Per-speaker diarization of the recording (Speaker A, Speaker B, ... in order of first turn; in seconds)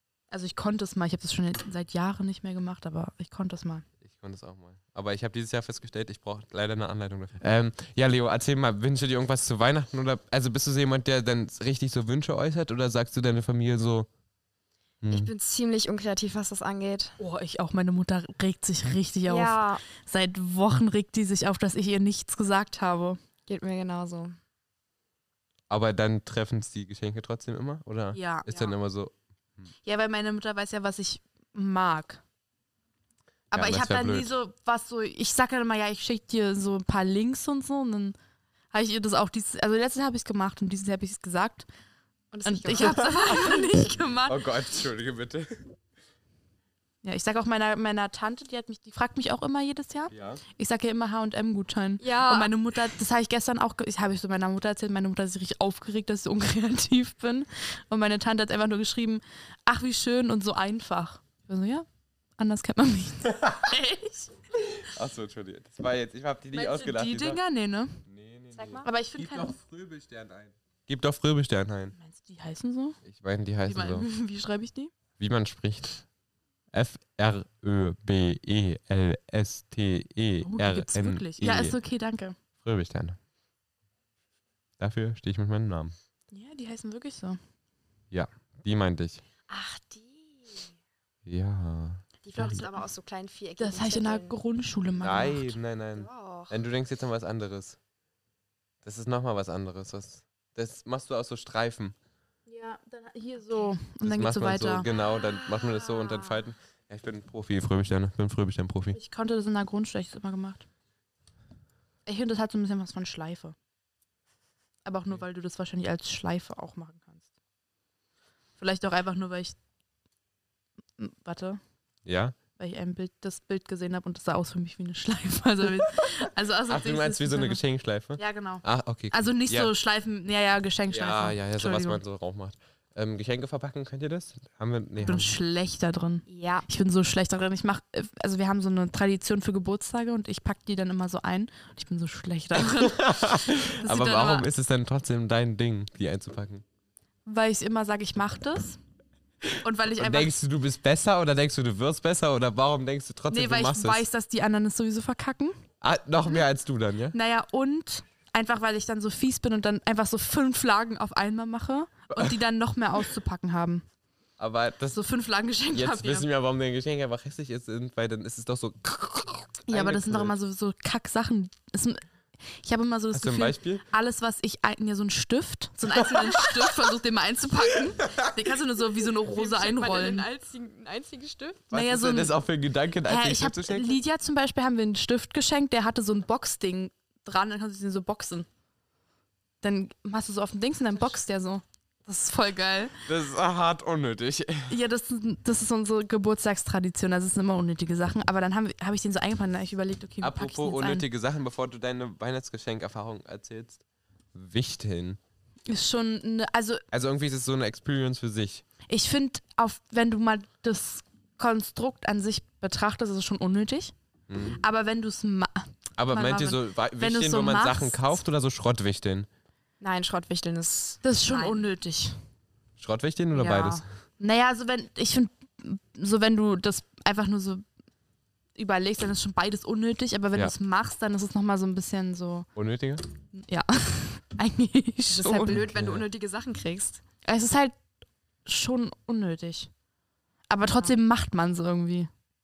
Speaker A: 0.3-3.9, 17.2-23.2, 28.1-28.5, 29.8-32.2, 33.5-38.1, 38.7-41.7, 42.4-44.4, 47.0-61.9, 62.4-64.3, 66.5-68.0, 68.8-69.5, 72.0-73.0, 73.7-74.9, 80.4-82.4, 86.3-87.4, 93.6-95.5, 102.5-104.9, 108.9-110.6, 112.0-113.5, 114.8-117.2, 118.6-119.5, 121.0-121.6, 122.6-127.6, 128.2-132.0, 135.0-144.5, 147.2-148.8, 149.6-150.4, 153.3-155.6, 157.1-163.8, 164.9-166.3, 169.7-172.0, 172.6-180.3, 181.7-182.3, 183.0-188.5, 189.6-193.0, 194.7-201.0, 205.7-206.8, 208.9-213.9, 214.6-218.2, 221.0-222.2, 223.3-227.6, 228.5-232.5, 233.3-235.6, 237.2-237.8, 238.4-239.7, 240.5-242.1
Speaker B: 4.0-14.1, 15.0-15.3, 25.7-29.7, 33.5-34.3, 42.7-43.1, 44.3-45.7, 50.1-50.4, 64.8-67.4, 68.0-72.0, 73.0-74.1, 75.2-76.0, 76.7-81.8, 82.6-83.2, 84.8-85.9, 88.1-89.2, 91.2-92.6, 95.0-97.8, 98.8-101.9, 104.0-109.0, 122.0-122.4, 126.7-129.7, 130.9-135.4, 142.6-146.6, 150.0-154.0, 155.8-157.1, 162.1-162.4, 164.4-165.0, 165.7-170.3, 173.1-173.8, 175.9-176.6, 181.7-184.0, 193.1-194.8, 200.2-203.8, 204.3-205.2, 206.9-208.6, 214.3-214.6, 216.0-219.3, 222.8-223.8, 232.5-233.0, 235.4-236.0
Speaker C: 15.1-17.1, 19.3-19.8, 23.5-24.4, 42.3-43.7, 52.0-52.5, 68.5-68.9, 89.5-90.7, 92.2-94.4, 95.9-96.5, 105.0-106.4, 136.3-136.7, 179.2-181.6, 219.8-221.6, 235.1-237.0